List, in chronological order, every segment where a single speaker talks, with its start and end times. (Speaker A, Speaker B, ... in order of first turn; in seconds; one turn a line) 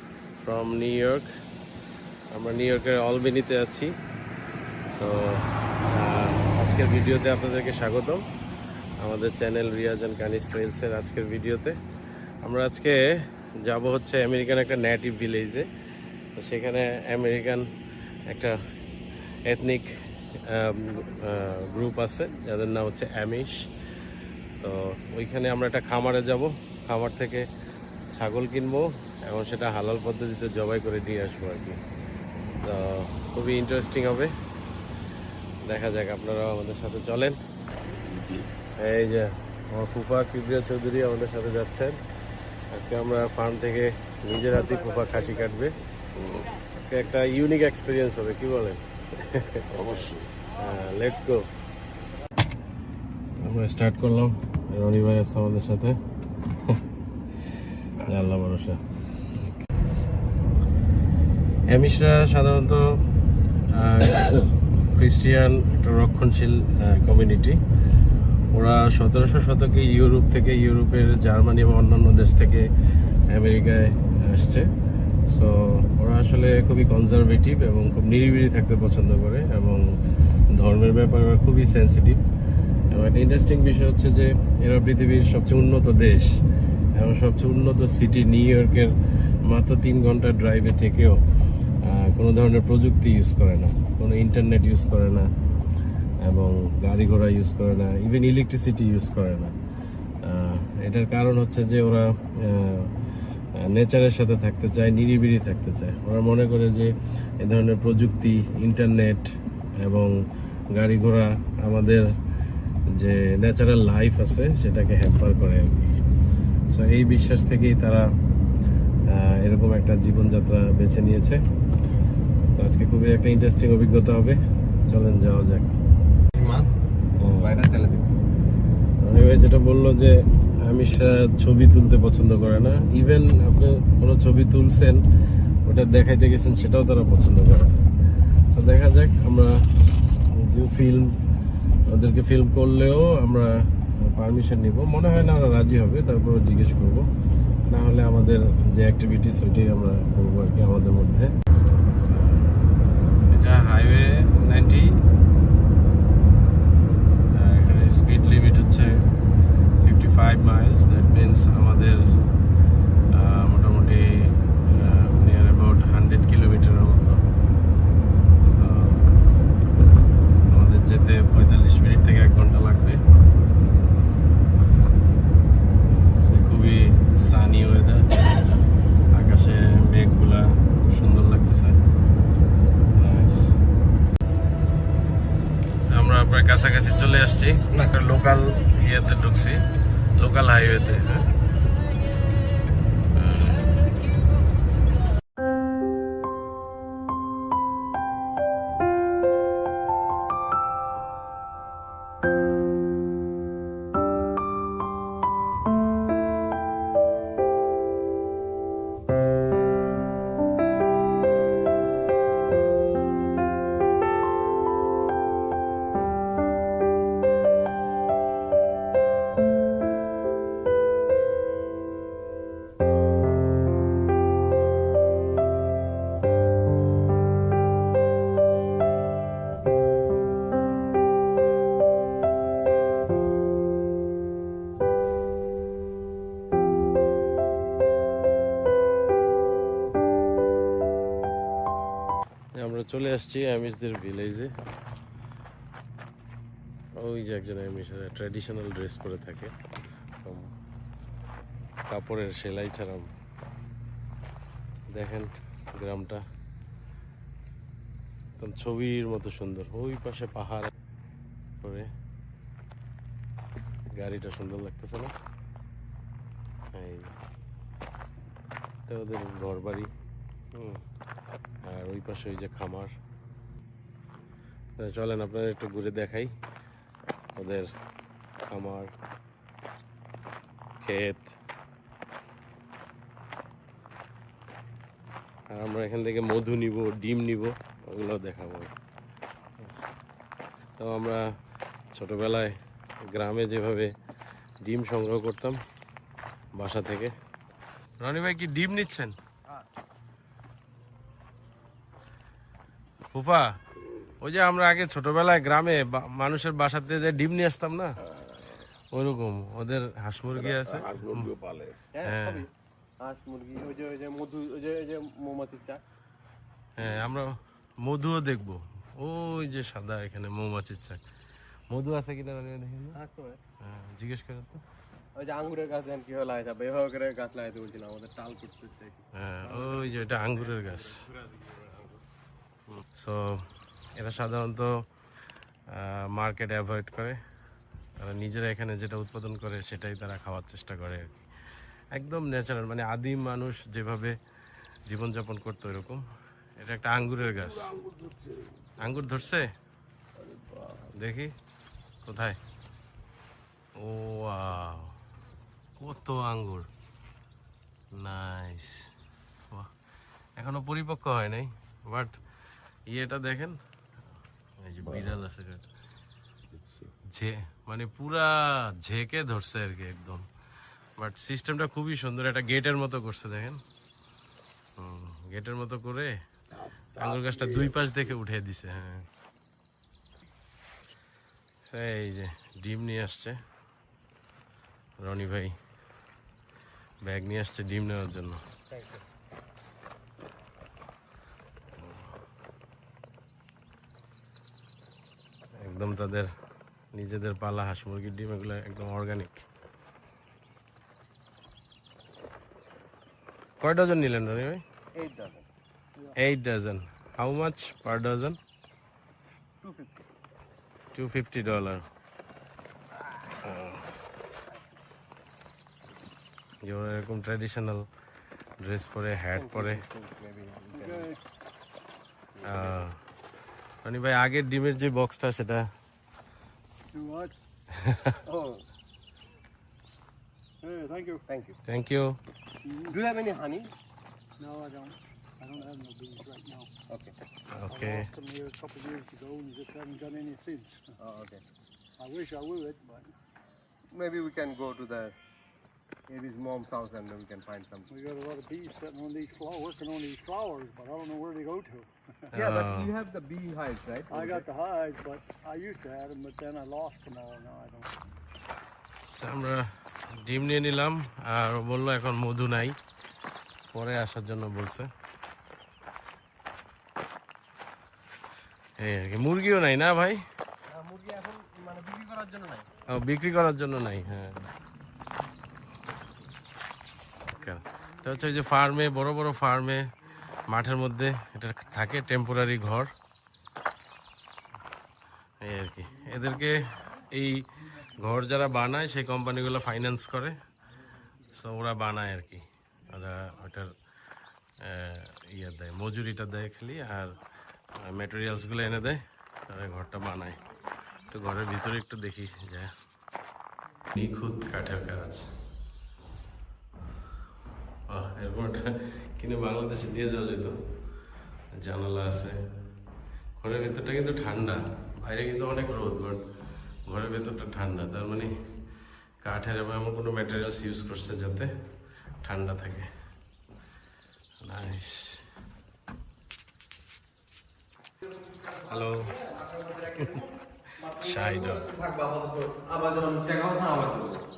Speaker A: 0.4-1.3
Speaker A: 2.3-3.9
Speaker A: 5.0-8.2
Speaker A: 9.0-11.8
Speaker A: 12.4-13.0
Speaker A: 13.7-15.7
Speaker A: 16.4-17.7
Speaker A: 18.3-18.6
Speaker A: 19.5-23.6
Speaker A: 24.6-27.5
Speaker A: 28.1-31.8
Speaker A: 32.6-34.3
Speaker A: 35.6-37.4
Speaker B: 37.9-38.5
Speaker A: 38.8-42.0
Speaker A: 42.7-45.8
Speaker B: 46.1-46.5
Speaker A: 46.7-51.5
Speaker B: 49.7-50.3
Speaker A: 53.4-56.0
Speaker A: 58.0-58.8
Speaker A: 61.7-62.9
Speaker A: 63.7-67.6
Speaker A: 68.5-72.7
Speaker A: 73.3-74.7
Speaker A: 75.3-79.8
Speaker A: 80.5-82.2
Speaker A: 82.9-86.3
Speaker A: 87.0-88.9
Speaker A: 89.5-91.2
Speaker A: 91.8-95.3
Speaker A: 96.2-99.5
Speaker A: 100.2-102.9
Speaker A: 103.6-110.1
Speaker A: 110.8-112.1
Speaker A: 113.0-116.0
Speaker A: 116.7-118.1
Speaker A: 119.1-121.4
Speaker A: 122.6-125.8
Speaker C: 126.3-126.7
Speaker A: 127.2-127.5
Speaker C: 127.4-128.1
Speaker A: 129.0-135.0
Speaker A: 135.7-137.8
Speaker A: 138.5-139.6
Speaker A: 140.3-141.1
Speaker A: 141.9-147.1
Speaker A: 147.7-151.3
Speaker A: 152.1-152.5
Speaker A: 153.3-154.9
Speaker A: 157.3-158.9
Speaker A: 159.8-162.0
Speaker A: 163.1-167.2
Speaker A: 168.6-169.1
Speaker A: 170.5-173.0
Speaker A: 176.2-178.2
Speaker A: 179.1-181.8
Speaker A: 183.0-183.6
Speaker A: 185.9-189.6
Speaker C: 187.7-188.1
Speaker A: 190.2-191.3
Speaker A: 193.2-193.8
Speaker A: 242.6-244.5
Speaker A: 246.9-249.5
Speaker A: 250.2-250.5
Speaker A: 251.9-253.1
Speaker A: 254.9-256.2
Speaker A: 258.4-260.7
Speaker A: 261.6-261.9
Speaker A: 264.0-265.1
Speaker A: 266.7-267.1
Speaker A: 268.9-269.9
Speaker A: 270.5-270.8
Speaker A: 271.6-272.9
Speaker A: 274.8-276.3
Speaker A: 277.4-277.7
Speaker A: 278.5-278.9
Speaker A: 280.8-281.4
Speaker A: 285.5-288.7
Speaker A: 290.8-291.2
Speaker A: 291.9-293.9
Speaker A: 294.6-295.6
Speaker A: 296.6-297.1
Speaker A: 298.0-299.1
Speaker A: 303.1-303.5
Speaker A: 304.2-308.0
Speaker B: 308.1-308.6
Speaker A: 308.9-311.3
Speaker B: 310.3-311.8
Speaker C: 311.9-312.5
Speaker A: 312.0-312.4
Speaker C: 313.0-315.8
Speaker A: 316.8-321.0
Speaker A: 321.7-323.0
Speaker C: 322.9-323.4
Speaker A: 323.6-324.6
Speaker C: 325.2-330.0
Speaker A: 329.1-331.1
Speaker C: 330.6-332.0
Speaker A: 332.7-334.8
Speaker A: 335.7-337.2
Speaker A: 338.0-341.2
Speaker A: 341.9-344.2
Speaker A: 344.9-346.0
Speaker A: 346.6-347.7
Speaker B: 347.3-348.7
Speaker A: 348.8-349.5
Speaker B: 350.2-350.9
Speaker A: 350.9-351.3
Speaker A: 352.1-352.4
Speaker A: 353.8-355.0
Speaker A: 355.8-356.7
Speaker A: 357.9-358.9
Speaker A: 360.4-362.1
Speaker A: 362.9-363.6
Speaker A: 364.6-365.7
Speaker B: 364.9-365.1
Speaker B: 366.6-366.9
Speaker A: 367.1-370.2
Speaker A: 371.0-373.6
Speaker A: 374.8-376.2
Speaker B: 376.5-377.9
Speaker A: 377.0-379.1
Speaker A: 381.7-383.4
Speaker A: 385.0-385.6
Speaker A: 387.1-388.4
Speaker C: 388.7-389.0
Speaker A: 391.8-392.1
Speaker A: 395.6-396.3
Speaker A: 396.9-399.5
Speaker A: 403.6-404.6
Speaker C: 405.0-405.5
Speaker A: 406.2-408.4
Speaker C: 409.6-410.1
Speaker A: 410.9-411.8
Speaker A: 413.4-413.9
Speaker A: 416.6-417.9
Speaker A: 418.6-419.8
Speaker C: 419.3-421.1
Speaker D: 420.7-421.2
Speaker C: 422.3-422.8
Speaker A: 422.4-423.0
Speaker A: 423.8-425.7
Speaker D: 426.9-427.3
Speaker A: 427.7-428.2
Speaker C: 428.2-428.6
Speaker D: 430.6-431.2
Speaker C: 431.3-431.6
Speaker A: 431.7-432.2
Speaker D: 432.6-433.0
Speaker C: 432.9-433.7
Speaker D: 434.4-436.7
Speaker C: 436.9-437.1
Speaker A: 437.5-438.1
Speaker D: 437.7-440.8
Speaker C: 441.0-441.4
Speaker D: 442.0-443.1
Speaker C: 443.9-445.1
Speaker C: 446.1-447.9
Speaker D: 447.9-452.3
Speaker A: 452.3-452.9
Speaker C: 452.3-454.4
Speaker D: 454.1-457.9
Speaker A: 459.0-462.8
Speaker A: 463.7-464.9
Speaker A: 468.8-470.2
Speaker C: 470.7-472.7
Speaker A: 472.9-474.5
Speaker A: 477.3-482.9
Speaker A: 485.4-490.4
Speaker A: 491.3-493.7
Speaker A: 494.6-497.2
Speaker A: 497.8-500.4
Speaker A: 501.1-502.7
Speaker A: 503.9-505.3
Speaker A: 507.9-510.6
Speaker A: 511.5-512.4
Speaker A: 513.4-516.2
Speaker A: 516.9-518.3
Speaker A: 519.2-521.5
Speaker A: 522.2-522.9
Speaker A: 524.4-525.2
Speaker C: 528.0-534.2
Speaker A: 528.7-529.1
Speaker A: 531.0-531.6